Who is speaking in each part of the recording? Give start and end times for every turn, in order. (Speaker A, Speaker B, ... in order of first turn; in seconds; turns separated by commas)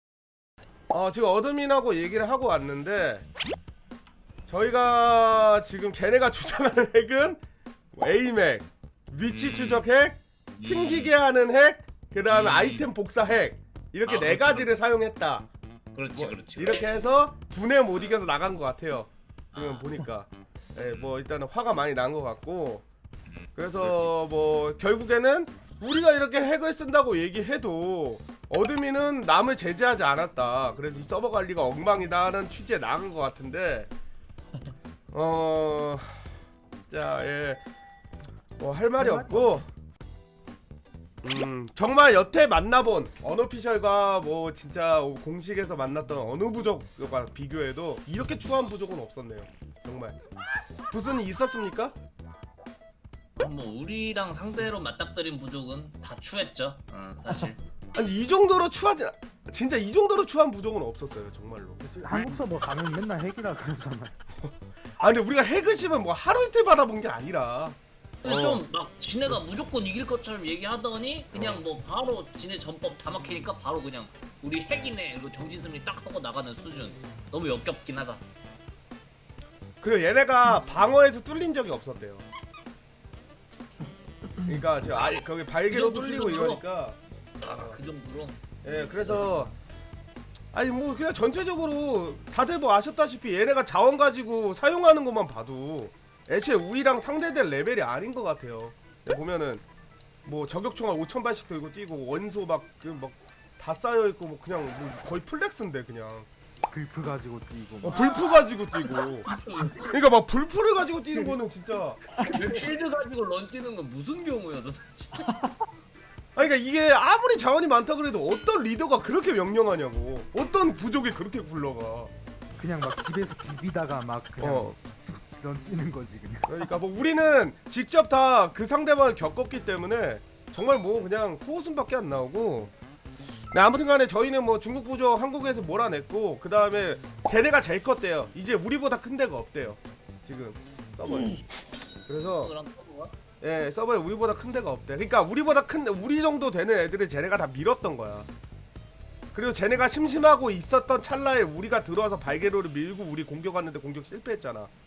Speaker A: 0.9-3.3, Speaker A: 4.5-7.4, Speaker A: 7.9-15.5, Speaker B: 9.2-9.8, Speaker B: 10.6-11.1, Speaker B: 12.3-12.9, Speaker B: 14.0-14.7, Speaker B: 15.9-17.1, Speaker A: 16.1-22.9, Speaker B: 19.5-20.0, Speaker B: 20.9-21.2, Speaker B: 23.3-24.1, Speaker A: 23.6-33.9, Speaker A: 35.1-36.3, Speaker A: 36.9-37.6, Speaker A: 38.6-39.7, Speaker C: 39.0-39.6, Speaker A: 41.2-50.2, Speaker A: 50.9-51.9, Speaker B: 53.4-57.6, Speaker A: 57.9-62.4, Speaker C: 61.8-64.2, Speaker A: 64.4-68.6, Speaker B: 68.2-78.2, Speaker A: 71.3-71.6, Speaker A: 79.8-82.2, Speaker A: 84.4-87.8, Speaker B: 85.7-86.6, Speaker B: 87.4-88.5, Speaker A: 88.6-89.5, Speaker A: 90.5-99.6, Speaker A: 100.2-106.3, Speaker C: 106.7-108.3, Speaker A: 107.8-109.3, Speaker B: 107.9-108.2, Speaker B: 109.1-109.9, Speaker A: 109.9-112.0, Speaker B: 112.2-115.3, Speaker A: 116.3-122.1, Speaker C: 122.6-126.7, Speaker A: 124.4-124.8, Speaker A: 126.5-132.7, Speaker A: 133.5-141.4, Speaker A: 142.1-142.5, Speaker B: 142.3-143.1, Speaker A: 143.4-148.3, Speaker A: 149.3-154.7